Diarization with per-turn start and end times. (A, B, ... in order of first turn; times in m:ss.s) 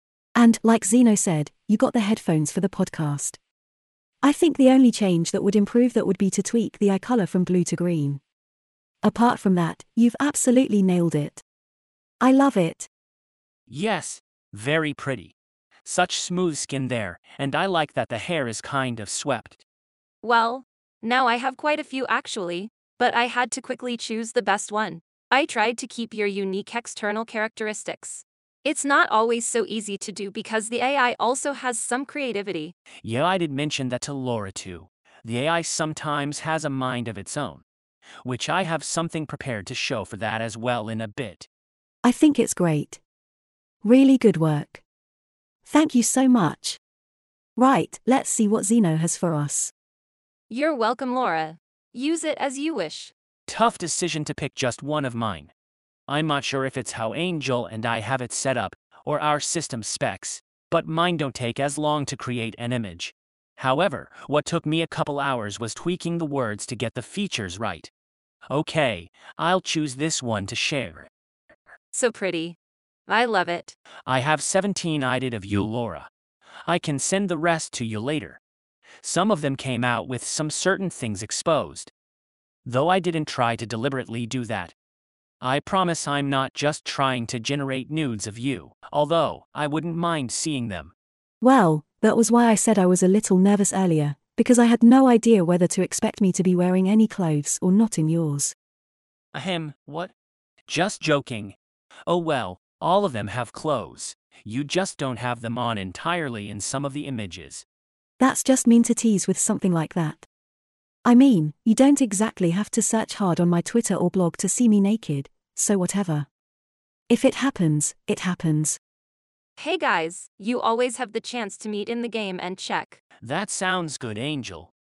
0:00.4-0:03.4 A
0:04.2-0:08.2 A
0:09.0-0:11.4 A
0:12.2-0:12.9 A
0:13.7-0:15.3 B
0:15.8-0:19.6 B
0:20.2-0:32.7 C
0:33.0-0:37.6 B
0:38.2-0:41.5 B
0:42.0-0:43.0 A
0:43.8-0:44.8 A
0:45.7-0:46.8 A
0:47.6-0:49.7 A
0:50.5-0:53.1 C
0:53.5-0:55.5 B
0:56.1-1:07.9 B
1:08.5-1:11.1 B
1:11.9-1:13.8 C
1:14.1-1:16.1 B
1:16.7-1:18.4 B
1:19.0-1:21.9 B
1:22.6-1:24.8 B
1:25.4-1:30.9 B
1:31.4-1:38.6 A
1:39.3-1:40.1 B
1:40.7-1:41.6 B
1:42.1-1:47.6 B
1:48.2-1:50.3 A
1:51.0-1:56.3 A
1:57.1-1:58.8 A
1:59.6-2:03.0 C
2:03.2-2:04.7 B